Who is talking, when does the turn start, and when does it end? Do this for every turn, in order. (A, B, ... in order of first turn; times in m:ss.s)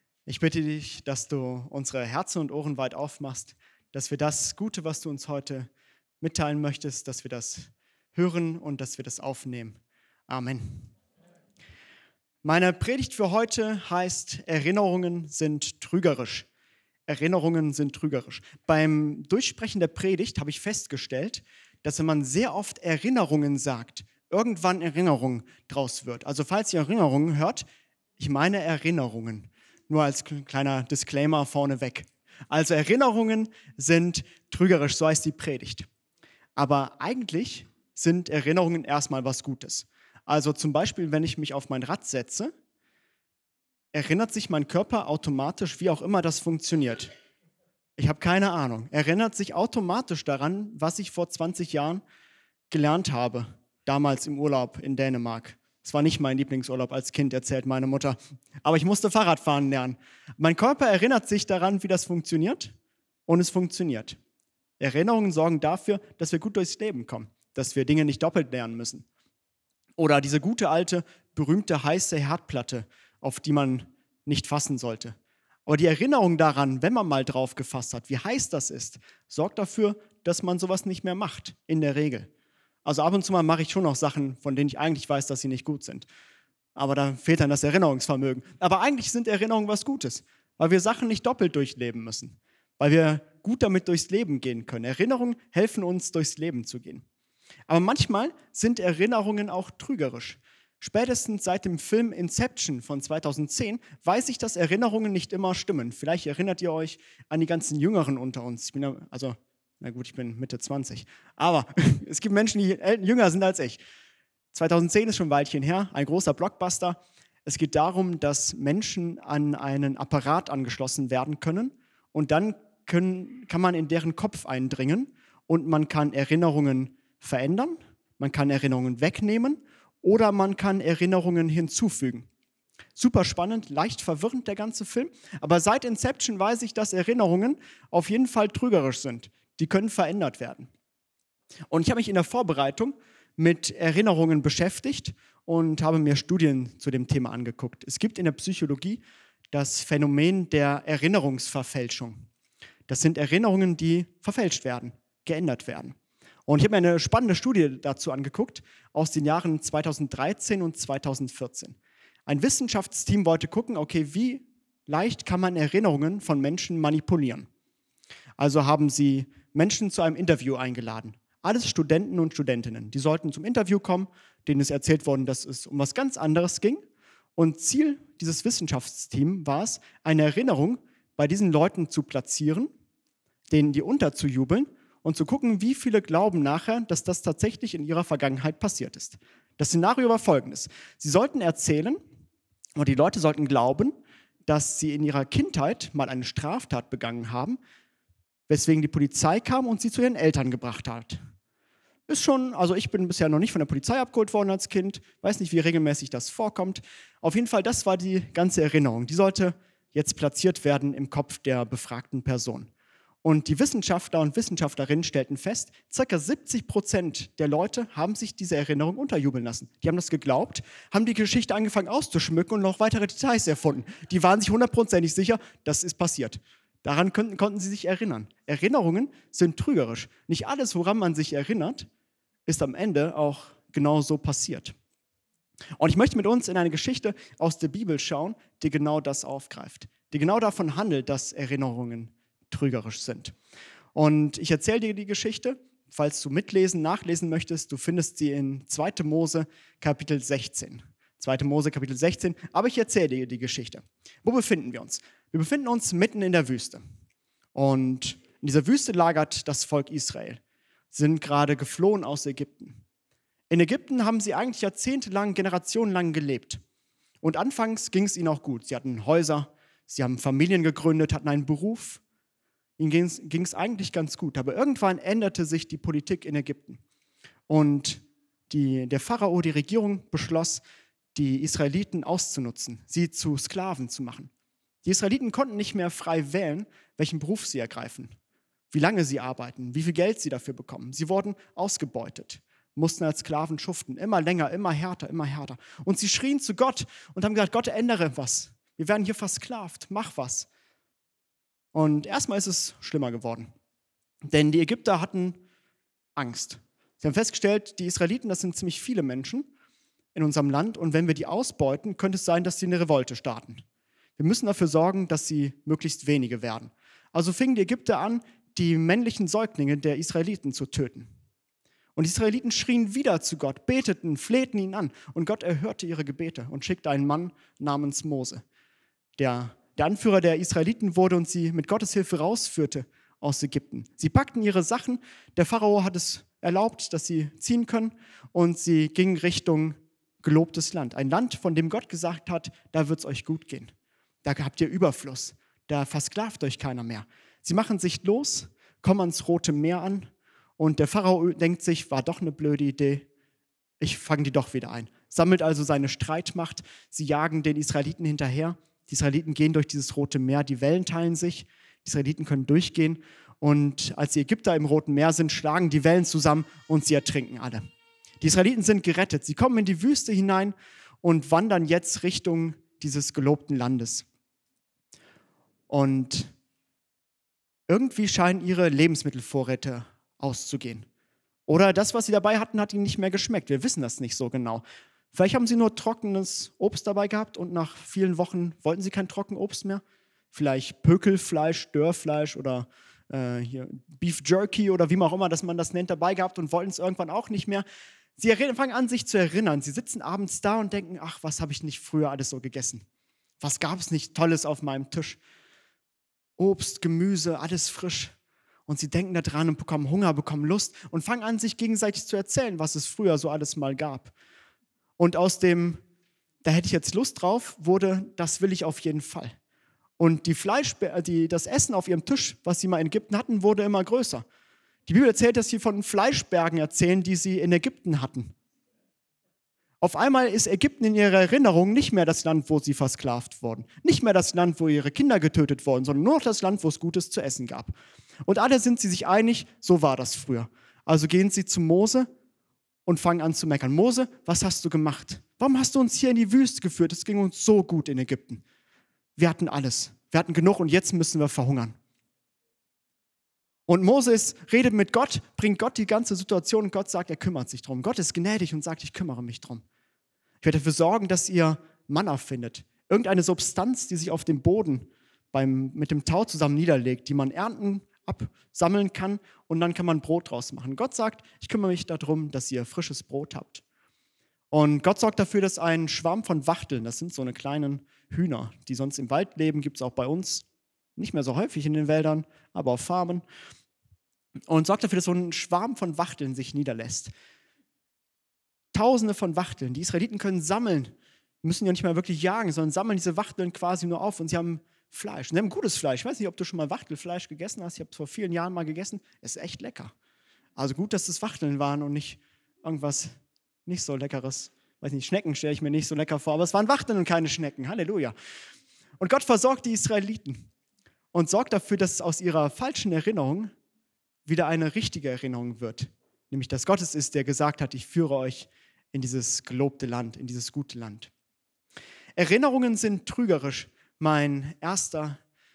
0:00.3-0:05.7 A
0:06.2-0:10.9 A
0:12.4-0:16.5 A
0:17.1-0:27.6 A
0:28.2-0:35.9 A
0:36.6-0:42.5 A
0:43.9-0:47.1 A
0:48.0-0:52.0 A
0:52.7-1:02.7 A
1:03.3-1:04.2 A
1:04.8-1:09.0 A
1:10.0-1:15.1 A
1:15.6-1:22.3 A
1:22.8-1:26.1 A
1:26.8-1:37.0 A
1:37.7-1:53.8 A
1:54.5-2:12.3 A
2:13.0-2:20.7 A
2:21.7-2:29.0 A
2:29.5-2:32.2 A
2:32.9-2:36.0 A
2:36.5-2:41.8 A
2:42.3-2:47.5 A
2:48.4-2:56.8 A
2:57.4-3:02.7 A
3:03.5-3:12.0 A
3:12.8-3:13.9 A
3:14.5-3:17.6 A
3:18.5-3:21.2 A
3:22.1-3:32.7 A
3:33.2-3:51.9 A
3:52.5-3:54.7 A
3:55.8-4:03.3 A
4:03.9-4:16.8 A
4:17.5-4:20.4 A
4:20.9-4:22.8 A
4:23.5-4:26.6 A
4:27.2-4:32.0 A
4:32.8-4:36.8 A
4:37.5-4:40.6 A
4:41.1-4:44.3 A
4:44.8-4:48.1 A
4:48.7-5:00.5 A
5:01.7-5:03.5 A
5:04.2-5:05.4 A
5:06.2-5:09.5 A
5:10.1-5:13.6 A
5:14.2-5:21.1 A
5:22.0-5:28.4 A
5:29.2-5:43.7 A
5:44.2-5:53.1 A
5:53.8-6:07.6 A
6:08.2-6:14.0 A
6:15.7-6:16.3 A
6:17.7-6:20.8 A
6:21.5-6:37.6 A
6:38.2-6:42.8 A
6:43.4-6:45.2 A
6:46.4-6:48.1 A
6:48.7-6:54.1 A
6:55.0-6:55.8 A
6:56.4-6:59.3 A
7:00.0-7:04.2 A
7:04.9-7:08.3 A
7:09.8-7:22.1 A
7:22.8-7:28.4 A
7:29.2-7:31.7 A
7:33.7-7:39.6 A
7:40.4-7:53.6 A
7:54.5-8:00.4 A
8:01.0-8:03.2 A
8:04.5-8:07.1 A
8:08.7-8:10.9 A
8:11.4-8:19.9 A
8:20.6-8:23.1 A
8:23.6-8:28.1 A
8:29.0-8:30.5 A
8:31.1-8:33.5 A
8:34.2-8:41.1 A
8:42.2-8:45.2 A